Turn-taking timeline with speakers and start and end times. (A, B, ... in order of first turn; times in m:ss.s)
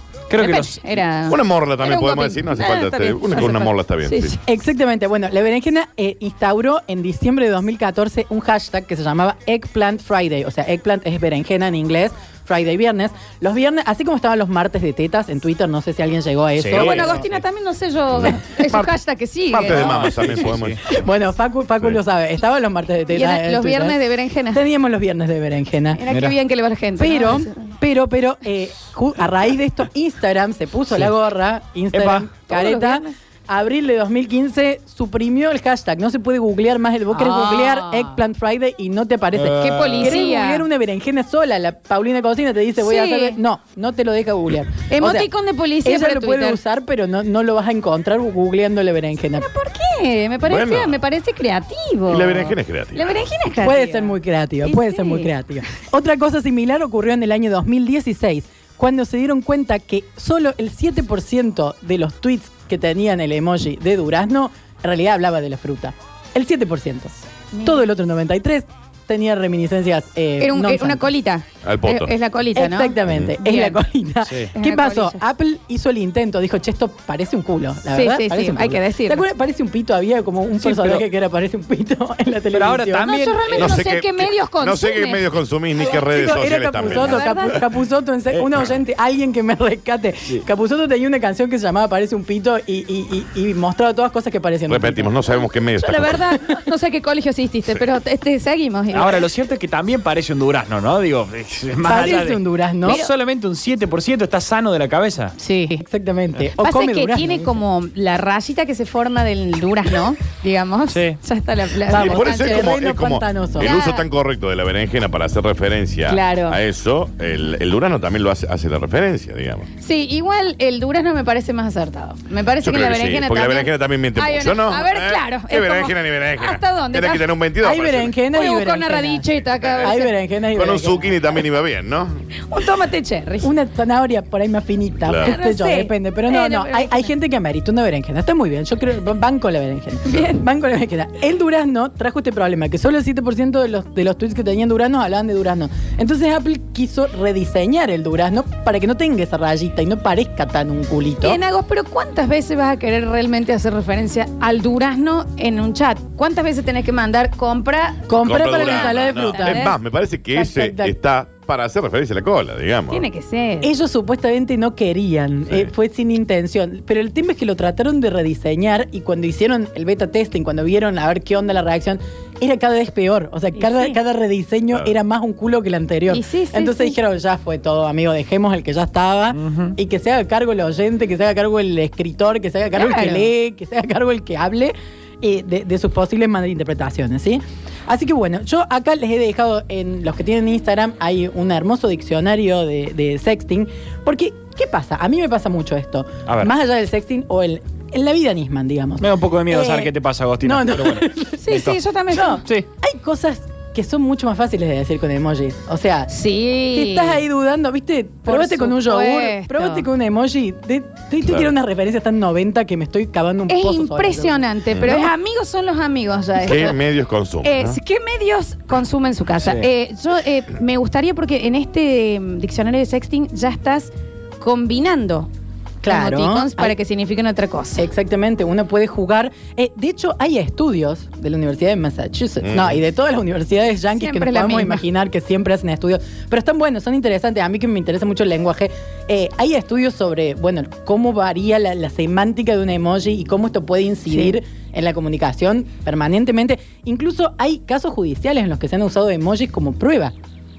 0:00.3-0:00.8 A
0:00.3-0:04.4 B
0:01.3-0:04.4 C
0:04.4-0:17.2 D
0:16.6-0:17.2 A
0:16.7-0:20.5 B
0:19.5-0:21.1 C
0:19.6-0:20.8 A
0:20.9-0:24.0 D
0:23.1-0:24.6 B
0:24.5-0:26.0 D
0:25.9-0:27.7 B
0:26.1-0:26.4 A
0:27.0-0:45.3 D
0:31.9-0:32.3 A
0:32.5-0:33.1 B
0:37.1-0:38.2 B
0:39.3-0:40.2 A
0:39.6-0:40.6 B
0:42.8-0:43.4 B
0:44.9-0:46.6 B
0:45.8-0:49.5 D
0:49.4-0:55.3 B
0:50.4-0:51.0 C
0:52.1-0:53.2 C
0:53.6-1:11.0 D
1:07.5-1:07.8 B
1:10.4-1:13.8 B
1:11.6-1:12.1 C
1:12.5-1:23.1 D
1:14.2-1:14.5 A
1:14.6-1:15.2 B
1:17.9-1:19.2 B
1:20.6-1:21.0 A
1:22.5-1:23.7 A
1:23.0-1:27.6 B
1:23.5-1:27.6 C
1:25.9-1:35.2 D
1:34.7-1:36.2 C
1:35.8-1:39.2 B
1:38.9-1:45.3 A
1:41.8-1:43.0 D
1:42.8-1:43.1 B
1:45.4-1:45.8 B
1:45.8-1:47.6 D
1:46.6-1:52.7 B
1:50.9-1:51.2 A
1:51.9-1:53.8 D
1:51.9-1:59.7 C
1:53.6-1:54.0 B
1:56.1-1:56.6 B
1:59.8-2:07.3 B
2:02.6-2:08.2 C
2:07.6-2:09.2 D
2:08.3-2:10.1 B
2:09.6-2:10.0 C
2:09.8-2:11.2 D
2:10.5-2:12.2 C
2:12.5-2:13.5 B
2:13.4-2:31.4 D
2:15.0-2:15.3 C
2:15.2-2:17.1 B
2:20.1-2:20.4 B
2:31.2-2:39.7 B
2:38.1-2:39.8 D
2:38.2-2:43.0 C
2:40.3-2:40.9 D
2:42.9-2:43.7 B
2:43.6-3:21.4 D
2:53.6-2:54.0 B
2:56.1-2:57.0 B
2:59.3-2:59.7 A
3:02.7-3:03.3 B
3:16.2-3:16.5 A
3:19.0-3:21.8 A
3:21.4-3:22.4 B
3:22.1-3:26.1 D
3:26.1-3:27.2 B
3:26.7-3:34.4 D
3:28.2-3:29.8 B
3:33.5-3:36.8 B
3:34.7-3:35.1 C
3:36.4-3:37.8 C
3:37.4-3:45.3 B
3:45.8-3:46.8 D
3:45.9-3:47.8 B
3:47.8-4:10.1 D
3:52.4-3:52.8 C
3:54.0-3:54.8 B